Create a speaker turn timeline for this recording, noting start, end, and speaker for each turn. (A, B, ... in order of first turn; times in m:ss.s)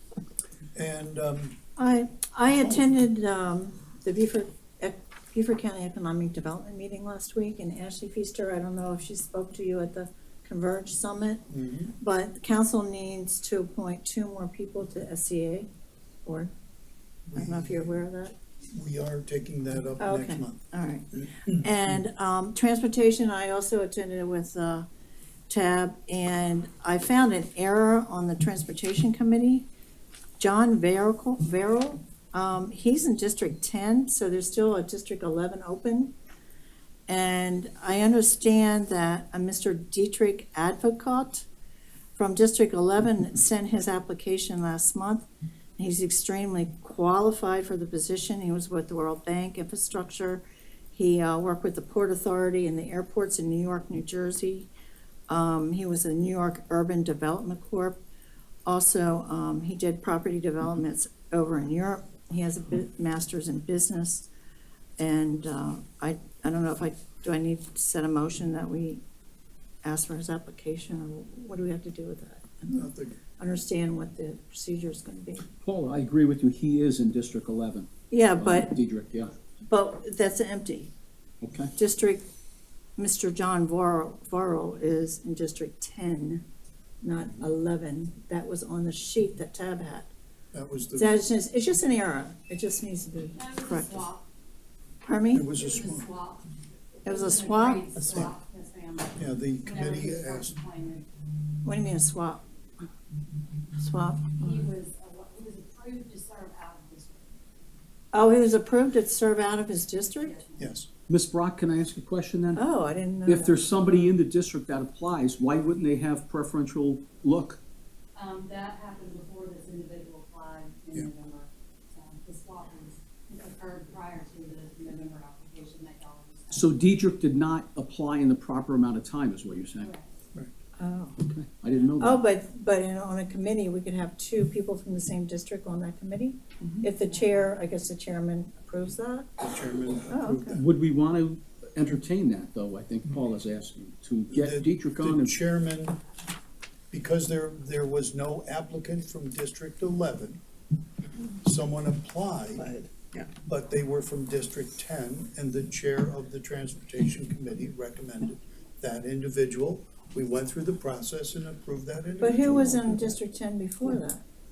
0:00.7-0:01.6 A
0:01.8-0:11.4 B
0:11.5-0:11.9 A
0:12.0-0:15.7 B
0:16.2-0:16.5 B
0:17.3-0:17.9 A
0:17.3-0:18.4 B
0:18.7-0:21.6 A
0:20.0-0:24.9 B
0:25.5-0:29.7 B
0:30.4-0:36.1 B
0:37.1-0:41.4 B
0:42.2-0:54.7 B
0:55.3-0:58.0 B
0:58.6-1:04.3 B
1:05.0-1:09.0 B
1:09.8-1:12.8 B
1:12.7-1:13.2 A
1:13.4-1:15.4 B
1:15.6-1:19.3 C
1:18.1-1:18.8 B
1:19.6-1:20.9 B
1:21.4-1:21.7 C
1:21.8-1:22.2 B
1:23.0-1:26.4 B
1:27.0-1:30.1 B
1:30.5-1:31.2 A
1:30.9-1:34.1 B
1:33.3-1:34.3 D
1:35.0-1:35.5 B
1:35.3-1:36.1 A
1:35.5-1:36.5 D
1:37.0-1:41.1 D
1:37.0-1:37.9 B
1:39.2-1:40.6 A
1:41.6-1:42.4 B
1:43.8-1:44.6 B
1:44.4-1:47.3 D
1:48.1-1:50.4 B
1:50.1-1:50.7 D
1:50.6-1:50.9 A
1:51.1-1:52.6 C
1:52.5-1:54.1 B
1:53.2-1:57.6 C
1:58.1-2:06.9 D
2:06.5-2:09.9 C
2:09.8-2:10.1 D
2:10.8-2:11.2 B
2:11.2-2:12.2 C
2:12.0-2:19.3 B
2:17.1-2:17.5 D
2:19.4-2:20.6 A
2:20.1-2:20.6 B
2:20.5-2:25.4 C
2:24.3-2:26.0 A
2:26.9-2:30.4 A
2:31.4-2:32.8 A
2:33.4-2:43.2 A
2:42.2-2:44.2 B